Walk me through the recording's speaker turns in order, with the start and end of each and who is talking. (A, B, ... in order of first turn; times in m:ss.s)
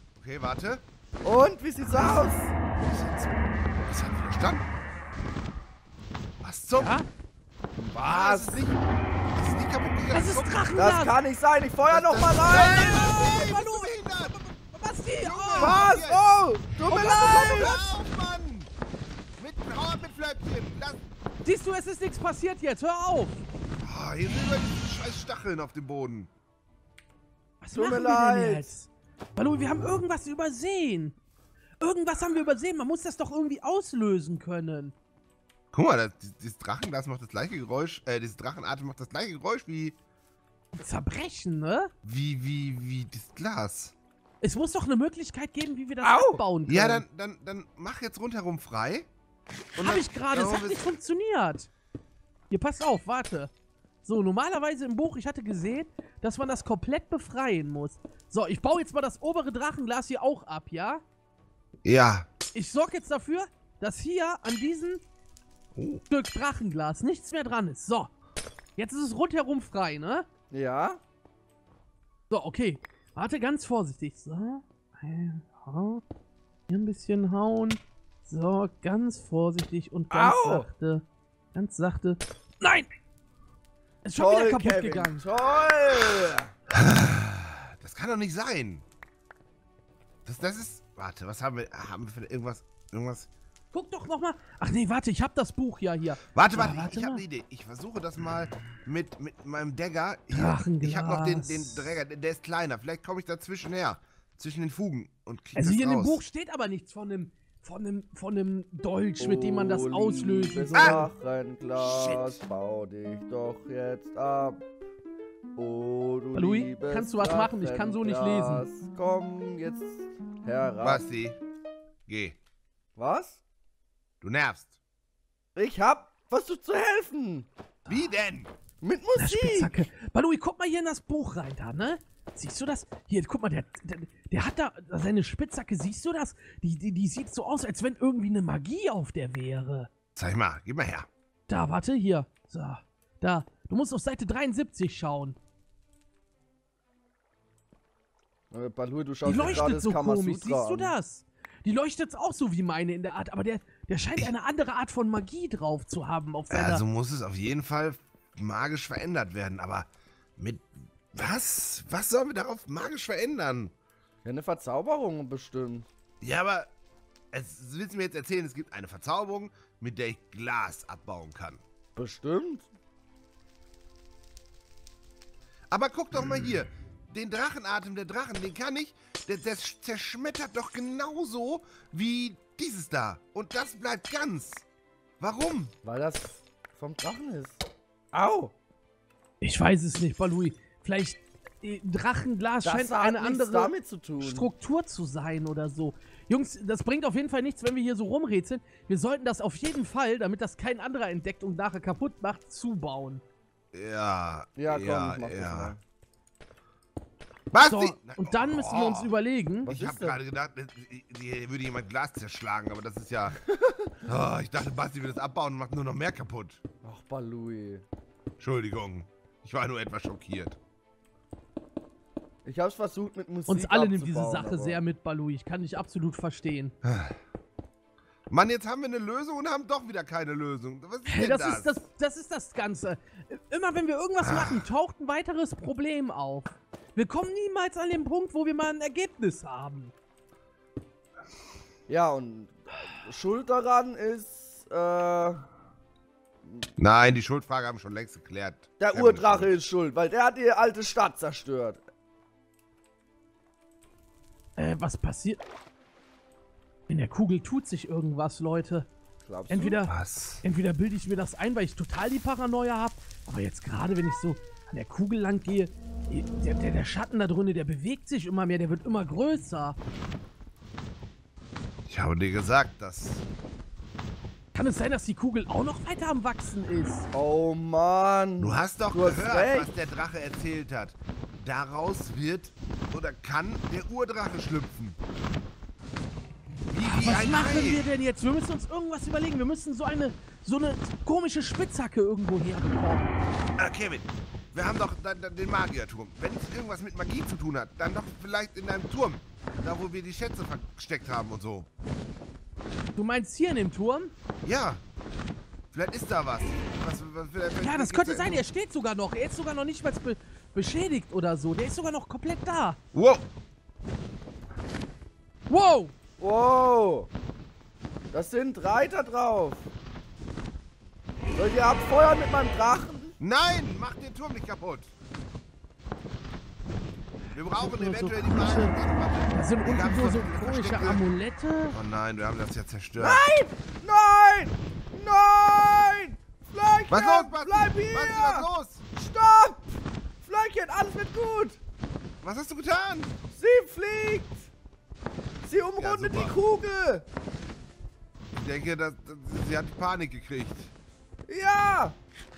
0:00.2-0:00.8 A
0:01.2-0:02.5 B
0:01.9-0:02.2 A
0:02.9-0:04.7 A
0:06.4-0:06.9 A
0:06.8-0:07.1 C
0:07.8-0:08.7 B
0:08.0-0:08.8 A
0:09.3-0:10.7 A
0:10.1-0:11.2 C
0:10.8-0:12.9 B
0:11.9-0:14.4 A
0:12.5-0:15.8 C
0:15.2-0:16.3 A
0:15.6-0:17.8 B
0:16.9-0:17.9 C
0:16.9-0:18.7 A
0:19.4-0:21.0 A
0:21.4-0:23.4 C
0:23.8-0:26.3 A
0:27.6-0:31.2 C
0:27.7-0:28.7 B
0:31.8-0:34.9 C
0:35.7-0:40.0 A
0:40.8-0:41.9 C
0:42.0-0:44.0 A
0:44.4-0:47.0 C
0:46.0-0:46.4 B
0:46.7-0:49.1 A
0:49.8-0:50.8 A
0:49.8-0:51.7 C
0:52.5-0:53.5 C
0:54.0-1:01.0 C
1:01.8-1:02.3 A
1:02.5-1:05.0 C
1:05.8-1:06.0 A
1:06.1-1:08.1 C
1:08.8-1:10.3 C
1:10.5-1:11.0 B
1:12.3-1:16.0 C
1:16.7-1:22.9 C
1:20.1-1:20.7 B
1:24.0-1:25.2 C
1:24.2-1:26.5 B
1:26.8-1:28.8 A
1:30.3-1:33.3 A
1:33.7-1:37.2 C
1:36.4-1:46.2 A
1:40.3-1:41.9 C
1:45.6-1:51.1 C
1:49.2-1:54.6 B
1:50.7-1:51.1 A
1:51.8-1:52.4 A
1:55.6-2:01.0 B
1:56.3-1:58.6 C
2:00.8-2:01.4 A
2:02.1-2:02.4 A
2:03.0-2:03.4 B
2:04.2-2:04.7 A
2:05.6-2:07.5 B
2:07.9-2:08.1 C
2:07.9-2:08.5 A
2:08.8-2:09.8 B
2:09.2-2:19.9 C
2:20.2-2:21.1 A
2:21.5-2:25.4 C
2:28.5-2:31.0 B
2:29.2-2:36.8 C
2:29.2-2:29.7 A
2:36.5-2:43.7 A
2:44.2-2:45.9 B
2:46.2-2:46.7 A
2:47.3-2:51.6 A
2:52.0-2:52.7 B
2:55.7-3:04.6 A
3:05.2-3:05.7 A
3:05.8-3:07.6 B
3:08.1-3:08.5 B
3:09.4-3:23.2 C
3:12.6-3:14.5 B
3:23.7-3:25.7 A
3:24.6-3:25.8 B
3:27.5-3:29.1 A
3:27.7-3:29.7 C
3:29.6-3:33.4 A
3:29.6-3:30.2 B
3:33.4-3:33.9 B
3:34.0-3:36.6 A
3:36.8-3:37.8 B
3:38.4-3:40.6 A
3:42.4-3:44.8 B
3:43.5-3:46.7 C
3:46.8-3:47.2 A
3:48.3-3:51.7 A
3:51.1-3:59.9 C
3:54.2-3:54.6 A
4:01.9-4:05.4 B
4:06.8-4:09.7 A
4:08.8-4:11.8 B
4:14.6-4:15.4 C
4:16.9-4:18.9 C
4:19.2-4:19.8 B
4:19.5-4:29.8 C
4:19.9-4:20.4 A
4:31.9-4:33.2 A
4:34.5-4:37.1 C
4:37.1-4:39.7 B
4:38.4-4:45.0 A
4:46.7-4:47.9 A
4:46.8-4:53.2 C
4:53.6-5:01.7 A
5:03.0-5:04.1 C
5:04.4-5:04.8 A
5:05.7-5:08.5 A
5:07.6-5:12.8 C
5:12.9-5:13.3 A
5:15.5-5:16.0 C
5:16.2-5:17.1 B
5:18.1-5:19.7 B
5:21.4-5:23.2 B
5:23.2-5:24.9 A
5:27.3-5:31.0 A
5:27.6-5:28.8 C
5:29.3-5:31.8 C
5:31.7-5:33.2 A
5:33.0-5:41.6 B
5:36.9-5:38.8 A
5:42.2-5:43.1 A
5:43.3-5:44.5 B
5:45.4-5:47.0 B
5:45.8-5:46.4 A
5:48.3-5:50.7 A
5:51.3-5:52.0 B